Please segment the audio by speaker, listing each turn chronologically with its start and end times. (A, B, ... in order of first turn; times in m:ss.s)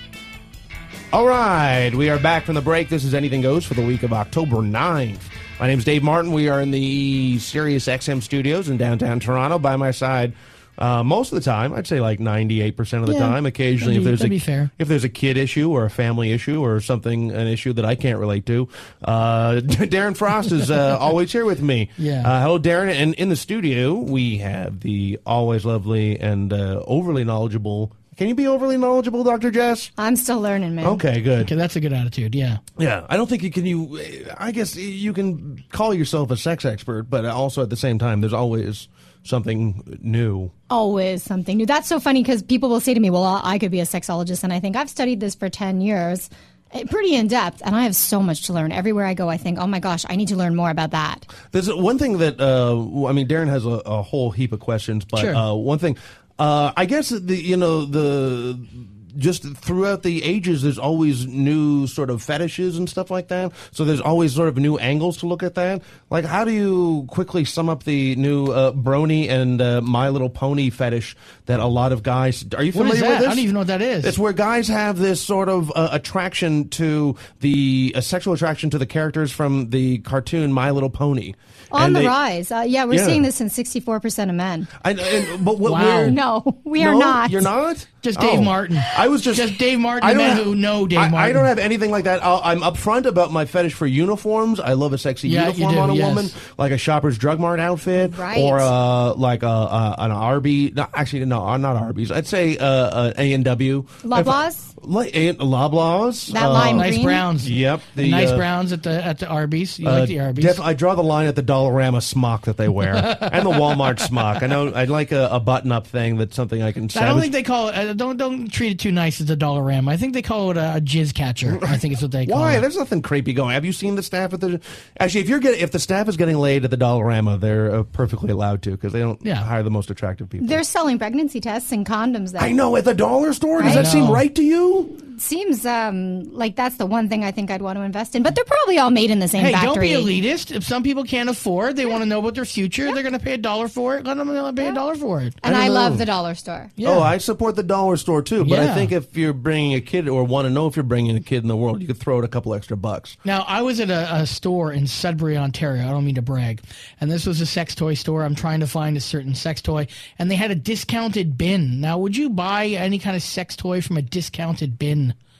0:01.1-0:29.9 A
0:13.1-0:14.7 B
0:22.0-0:22.3 B
0:30.0-0:31.0 C
0:30.8-0:31.5 A
0:31.4-0:32.6 B
0:32.8-0:40.5 A
0:40.7-0:51.3 C
0:51.5-1:13.5 A
0:55.2-0:55.4 B
1:12.7-1:14.1 B
1:14.0-1:22.2 A
1:21.7-1:25.4 C
1:22.9-1:23.2 A
1:24.8-1:26.2 A
1:25.6-1:26.2 B
1:26.0-1:27.5 C
1:26.8-1:48.5 A
1:28.0-1:31.5 B
1:35.2-1:36.3 B
1:38.0-1:38.7 C
1:44.0-1:44.7 C
1:46.3-1:47.2 C
1:46.7-1:50.6 B
1:49.8-1:57.3 A
1:52.9-1:54.0 B
1:56.9-2:02.6 B
2:01.4-2:10.6 A
2:09.2-2:09.5 B
2:10.4-2:12.6 C
2:12.4-2:15.0 A
2:13.6-2:13.9 C
2:13.6-2:14.2 B
2:15.0-2:20.1 C
2:19.4-2:25.4 B
2:25.4-2:26.7 C
2:25.4-2:26.0 A
2:26.8-2:27.1 B
2:26.8-2:33.2 A
2:28.4-2:28.9 B
2:33.2-2:45.2 B